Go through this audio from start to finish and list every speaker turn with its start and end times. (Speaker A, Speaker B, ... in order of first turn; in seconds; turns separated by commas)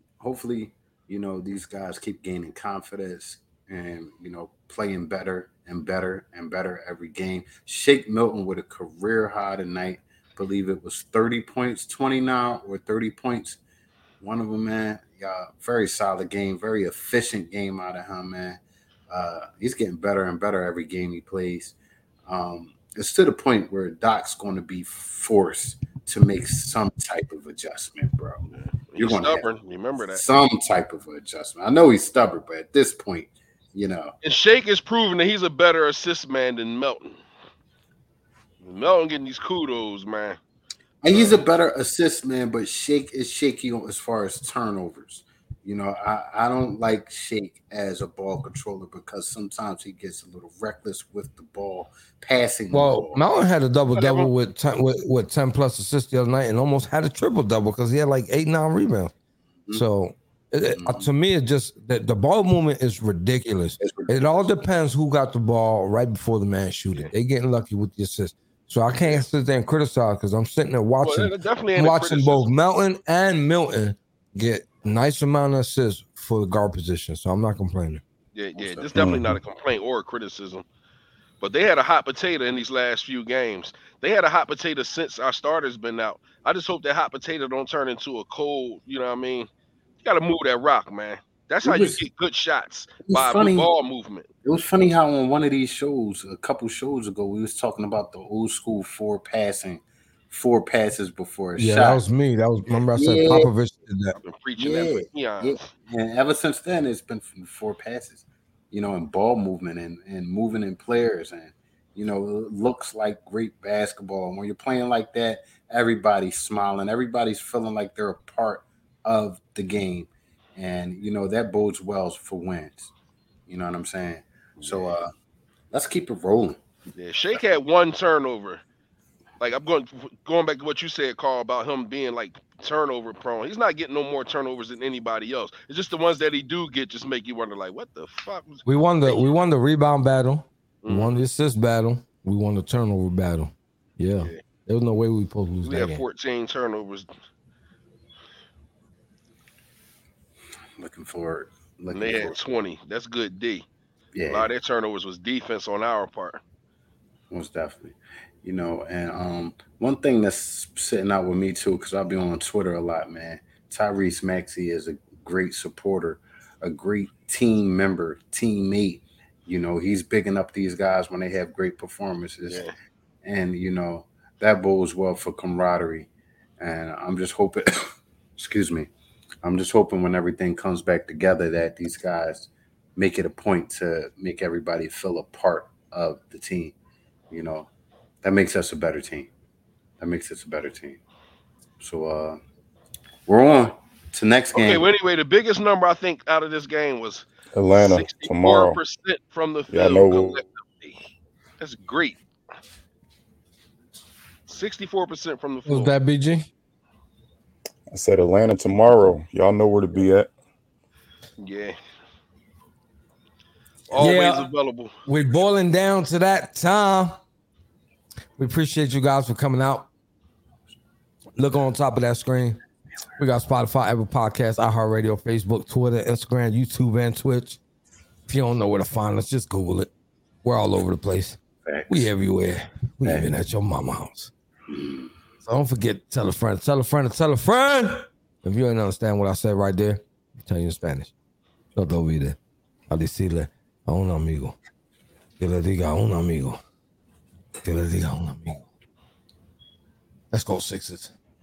Speaker A: 0.2-13.6, Speaker A: 14.2-21.7, Speaker A: 22.3-28.4, Speaker B: 28.5-30.2, Speaker A: 29.0-29.5, Speaker A: 30.1-34.1, Speaker B: 34.2-37.2, Speaker B: 38.6-40.4, Speaker A: 41.0-53.2, Speaker B: 41.1-41.5, Speaker C: 52.7-59.1, Speaker B: 53.9-54.3, Speaker C: 59.7-78.0, Speaker A: 60.8-61.1, Speaker A: 63.8-64.5, Speaker B: 71.0-72.5, Speaker B: 78.3-80.6, Speaker A: 78.6-79.0, Speaker D: 78.9-79.4, Speaker B: 81.4-89.5, Speaker B: 90.0-94.3, Speaker A: 91.6-92.0, Speaker A: 93.0-93.7, Speaker A: 94.4-102.0, Speaker C: 101.6-104.2, Speaker A: 102.9-103.5, Speaker B: 104.2-105.7, Speaker A: 104.6-122.9, Speaker A: 123.5-125.1, Speaker B: 124.6-125.0, Speaker A: 125.7-126.6, Speaker B: 127.0-128.6, Speaker B: 129.4-139.2, Speaker C: 138.7-146.0, Speaker B: 140.8-141.2, Speaker B: 145.6-147.1, Speaker A: 150.8-152.3, Speaker B: 151.9-153.6, Speaker A: 154.1-154.5, Speaker B: 154.3-156.4, Speaker A: 157.3-172.7, Speaker B: 172.5-172.7, Speaker A: 173.2-176.1, Speaker A: 176.6-177.8, Speaker A: 178.4-178.9, Speaker A: 179.4-186.7, Speaker A: 187.3-187.7, Speaker A: 188.2-189.3, Speaker A: 190.0-191.0, Speaker A: 191.8-192.4, Speaker A: 193.3-194.9, Speaker B: 194.5-201.0, Speaker D: 197.5-198.8, Speaker D: 199.7-200.4, Speaker B: 201.6-202.2, Speaker B: 204.5-205.9, Speaker C: 205.7-206.5, Speaker D: 207.9-210.3, Speaker B: 211.4-211.8, Speaker B: 213.9-214.9, Speaker C: 214.0-214.5, Speaker C: 215.1-217.2, Speaker C: 218.4-219.9, Speaker C: 221.3-222.6, Speaker C: 223.2-227.6, Speaker C: 228.3-229.9, Speaker C: 230.4-231.4, Speaker A: 231.6-232.1, Speaker C: 231.9-234.3, Speaker A: 234.7-235.1, Speaker C: 235.4-241.1, Speaker C: 241.7-242.4, Speaker C: 242.9-244.6, Speaker C: 245.4-246.6, Speaker C: 247.6-248.6, Speaker C: 250.3-251.1